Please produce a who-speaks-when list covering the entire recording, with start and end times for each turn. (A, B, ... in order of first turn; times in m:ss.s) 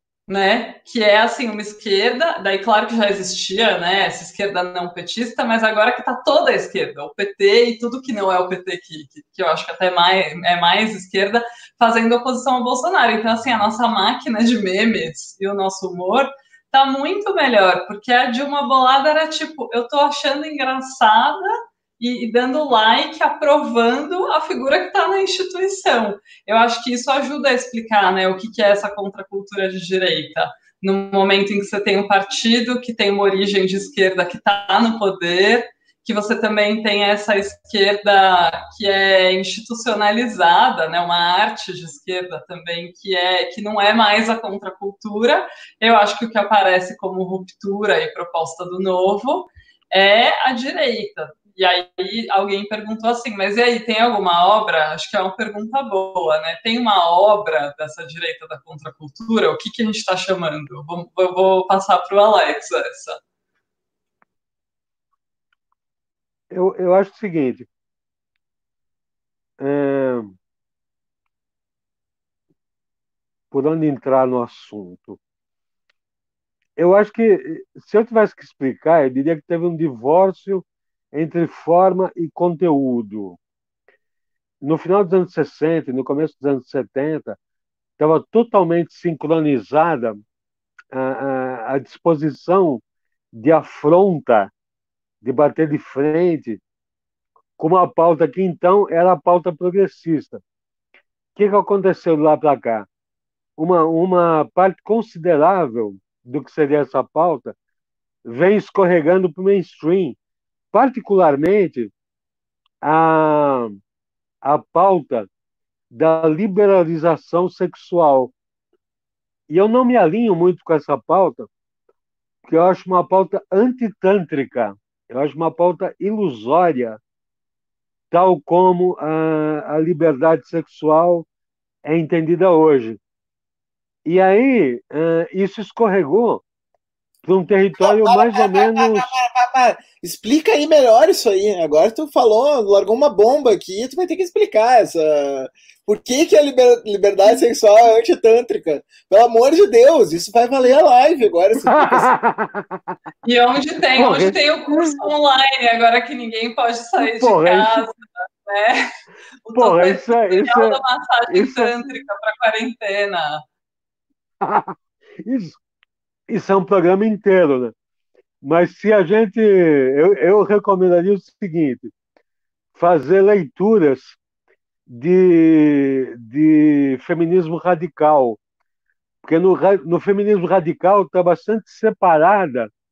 0:00.3-1:03.2 A
1:06.5-1:07.7 B
1:09.6-1:10.4 B
1:13.5-1:15.2 B
1:16.8-1:23.4 B
1:24.6-1:27.4 B
1:28.0-1:30.2 B
1:30.9-1:32.8 B
1:33.3-1:34.5 B
1:35.2-1:36.6 B
1:37.6-1:40.4 B
1:41.4-1:42.9 B
1:43.6-1:47.6 B
1:48.2-1:50.2 B
1:50.7-1:51.9 B
1:52.8-1:53.8 B
1:54.4-1:55.3 B
1:55.9-1:58.3 B
1:59.5-2:01.5 B
2:02.5-2:07.0 B
2:08.1-2:11.3 B
2:11.8-2:13.0 B
2:14.0-2:16.4 B
2:17.2-2:19.2 B
2:17.8-2:32.1 C
2:31.6-2:33.0 B
2:33.2-2:38.8 A
2:33.9-2:35.0 B
2:37.0-2:37.8 B
2:39.5-2:43.4 A
2:39.5-2:41.7 B
2:44.4-2:45.6 B
2:46.3-2:47.7 B
2:48.4-2:51.9 B
2:52.8-2:54.2 B
2:54.9-2:58.4 B
2:59.2-3:02.7 B